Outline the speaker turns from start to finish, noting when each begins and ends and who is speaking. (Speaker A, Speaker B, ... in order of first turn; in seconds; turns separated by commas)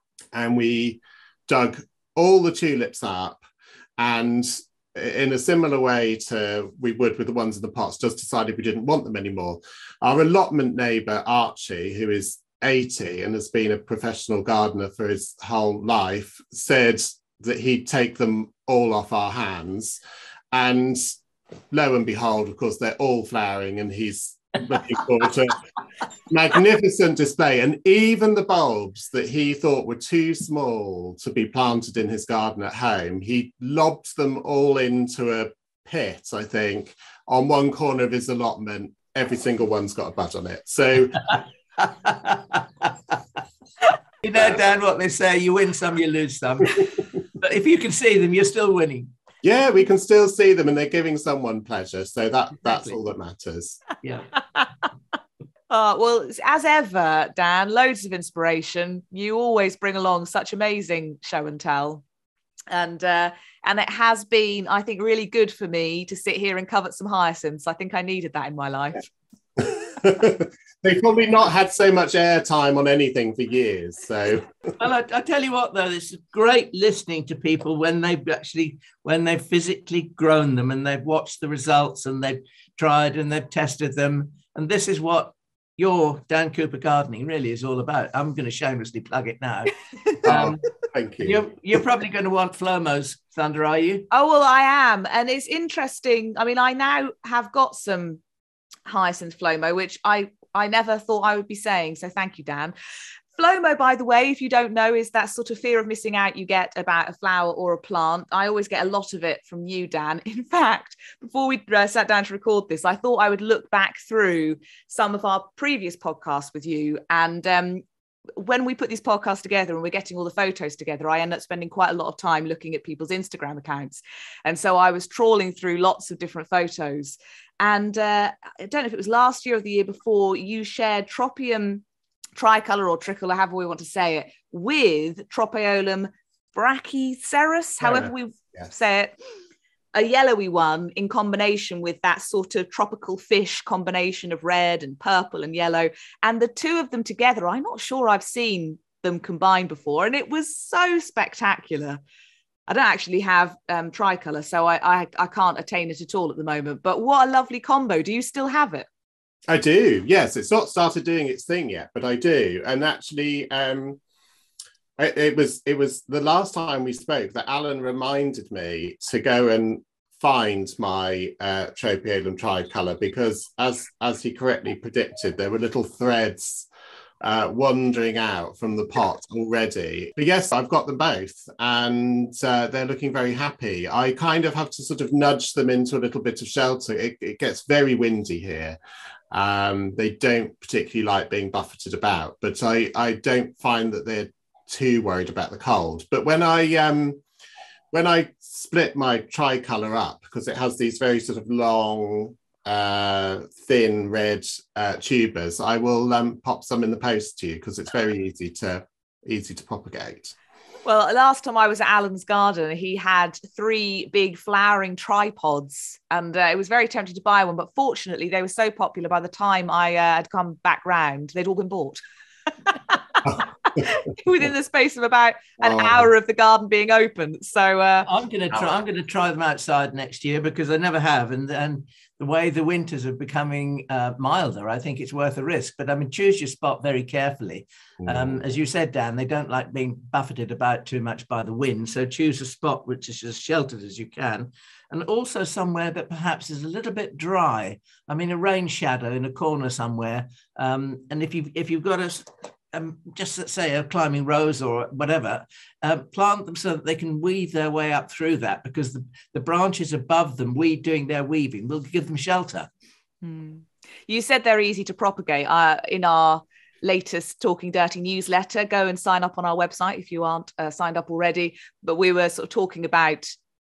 Speaker A: 0.3-3.4, Speaker A: 4.0-20.0, Speaker A: 20.5-21.0, Speaker A: 21.7-25.6, Speaker A: 26.3-41.3, Speaker B: 41.8-42.9, Speaker B: 44.2-49.1, Speaker A: 44.3-44.6, Speaker A: 49.4-53.8, Speaker B: 52.6-53.0, Speaker B: 54.0-54.3, Speaker C: 55.7-62.0, Speaker C: 62.7-69.1, Speaker A: 69.6-74.7, Speaker B: 74.8-90.7, Speaker A: 90.2-91.4, Speaker B: 91.2-94.1, Speaker C: 94.1-98.2, Speaker C: 98.9-102.7, Speaker C: 103.3-117.8, Speaker C: 118.3-131.8, Speaker C: 132.4-139.2, Speaker A: 137.8-138.7, Speaker C: 139.9-152.0, Speaker C: 152.7-158.9, Speaker A: 159.5-164.0, Speaker A: 165.0-176.7, Speaker A: 177.2-188.8, Speaker A: 189.3-197.2, Speaker A: 197.9-210.3, Speaker C: 210.8-222.0, Speaker C: 222.7-222.9, Speaker A: 223.2-223.8, Speaker C: 223.7-228.1, Speaker A: 225.6-226.1, Speaker B: 228.0-262.7, Speaker A: 238.0-238.4, Speaker C: 263.2-273.4